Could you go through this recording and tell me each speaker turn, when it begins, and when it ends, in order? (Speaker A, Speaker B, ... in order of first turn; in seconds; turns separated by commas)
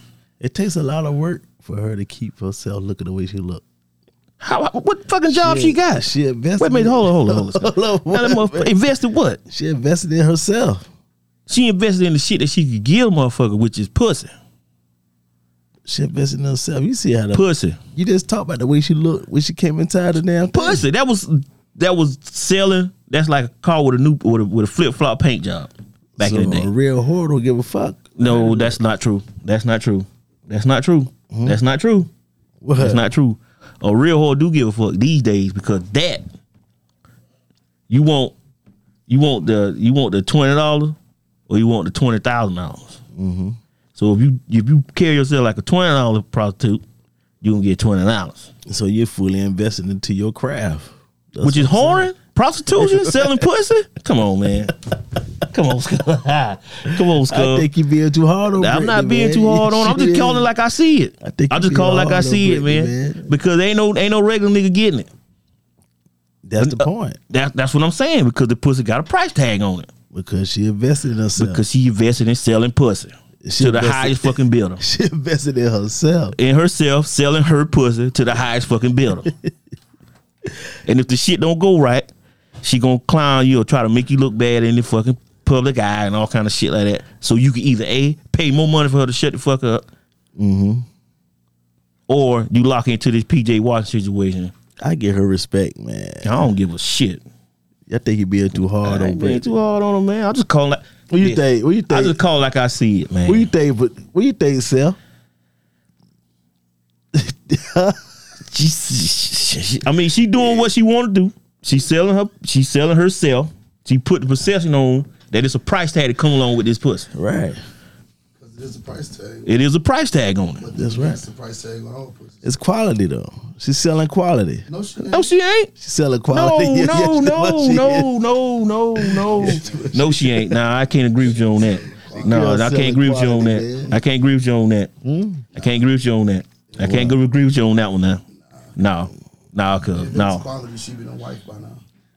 Speaker A: 0.4-3.6, Speaker B: 4.4-9.4, Speaker A: 5.3-8.7, Speaker A: 9.5-10.9, Speaker B: 11.5-14.3, Speaker A: 15.8-17.4, Speaker B: 17.3-17.8, Speaker A: 17.9-20.8, Speaker B: 20.5-26.7, Speaker A: 26.2-28.8, Speaker B: 28.2-32.1, Speaker A: 31.3-31.6, Speaker A: 32.6-33.0, Speaker B: 32.8-36.2, Speaker B: 37.9-38.3, Speaker B: 39.1-41.0, Speaker B: 41.5-43.0, Speaker A: 43.1-43.6, Speaker B: 43.9-46.8, Speaker B: 47.4-48.5, Speaker A: 48.6-52.1, Speaker B: 51.4-54.8, Speaker A: 52.7-53.5, Speaker B: 55.4-57.7, Speaker A: 57.0-60.5, Speaker B: 58.5-65.1, Speaker A: 61.2-63.3, Speaker A: 66.5-67.2, Speaker B: 66.6-69.9, Speaker A: 70.1-71.6, Speaker B: 71.4-74.8, Speaker A: 73.4-76.4, Speaker B: 76.3-79.3, Speaker B: 80.8-82.1, Speaker B: 82.6-89.8, Speaker A: 90.3-90.8, Speaker B: 92.1-94.5, Speaker A: 94.8-96.4, Speaker B: 96.2-97.2, Speaker A: 97.9-99.5, Speaker B: 98.8-103.5, Speaker A: 101.1-102.2, Speaker A: 103.2-105.0, Speaker A: 107.1-108.0, Speaker B: 108.5-117.1, Speaker A: 117.1-117.6, Speaker C: 118.3-119.5, Speaker B: 119.5-120.7, Speaker C: 120.6-122.5, Speaker A: 120.7-121.2, Speaker A: 122.4-124.6, Speaker C: 124.7-125.3, Speaker B: 125.1-125.7, Speaker A: 125.8-128.1, Speaker B: 126.3-134.9, Speaker A: 129.0-130.6, Speaker C: 129.2-130.1, Speaker C: 131.3-132.5, Speaker A: 132.2-134.0, Speaker A: 135.0-135.5, Speaker B: 135.5-138.2, Speaker C: 136.7-137.0, Speaker A: 136.8-137.2, Speaker B: 138.8-140.5, Speaker C: 139.8-141.8